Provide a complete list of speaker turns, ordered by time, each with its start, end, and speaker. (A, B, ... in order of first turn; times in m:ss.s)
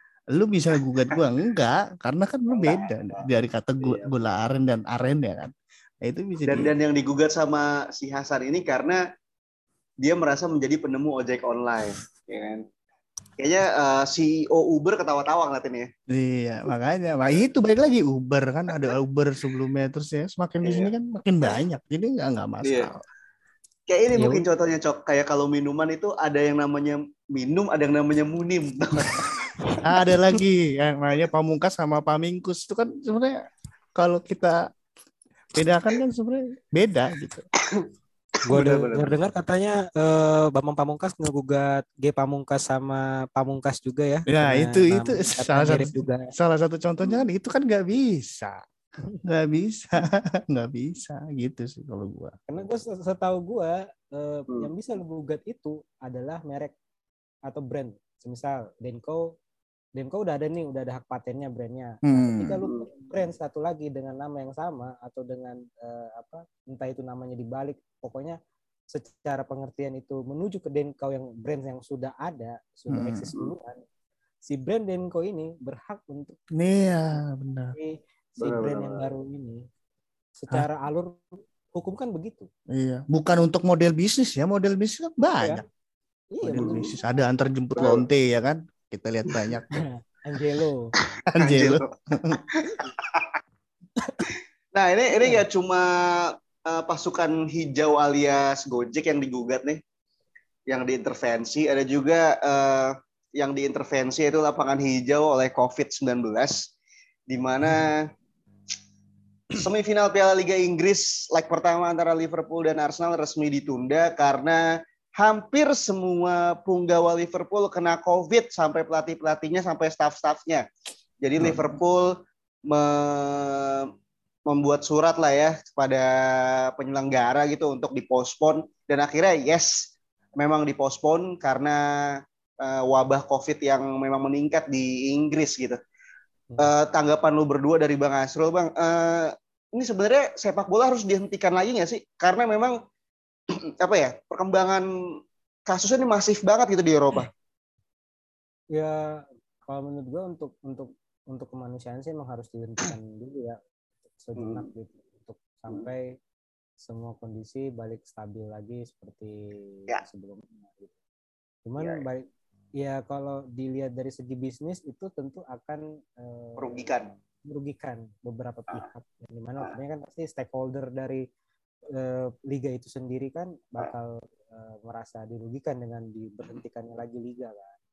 0:00.3-0:06.7 A
0:02.5-0:03.2 B
0:03.8-0:04.1 B
0:06.5-0:09.0 B
0:10.0-0:12.6 B
0:13.4-0:15.9 B
0:16.1-0:23.0 A
0:20.6-0:20.9 B
0:22.6-0:22.9 B
0:23.9-0:29.3 B
0:24.2-0:24.4 C
0:29.8-0:33.4 A
0:34.0-0:34.7 A
0:35.5-0:37.5 A
0:38.5-0:46.3 C
0:38.5-0:39.1 B
0:44.3-0:48.6 A
0:49.2-0:52.4 A
0:52.5-0:56.7 C
0:57.5-0:59.3 C
1:00.0-1:08.4 C
1:02.1-1:02.6 A
1:08.9-1:13.8 C
1:12.9-1:13.3 A
1:14.5-1:16.4 C
1:16.5-1:17.8 A
1:17.8-1:19.6 C
1:18.4-1:19.1 B
1:20.4-1:21.2 C
1:21.7-1:22.5 C
1:22.7-1:25.6 A
1:26.3-1:27.0 C
1:26.4-1:29.8 A
1:27.8-1:28.0 B
1:29.7-1:30.9 C
1:31.3-1:32.4 A
1:31.4-1:33.3 B
1:34.8-1:39.8 B
1:40.7-1:46.7 B
1:47.3-1:48.1 B
1:49.6-1:54.7 B
1:55.2-2:00.6 B
2:01.2-2:02.2 B
2:01.4-2:01.8 A
2:02.7-2:03.9 B
2:04.5-2:15.8 B
2:16.6-2:22.8 B
2:23.8-2:24.9 B
2:25.7-2:27.3 B
2:28.7-2:33.6 C
2:34.2-2:36.1 C
2:34.4-2:34.6 B
2:36.8-2:40.9 C
2:41.7-2:42.2 C
2:42.8-2:46.9 C
2:46.6-2:47.1 B
2:47.5-2:51.2 C
2:51.9-2:57.7 C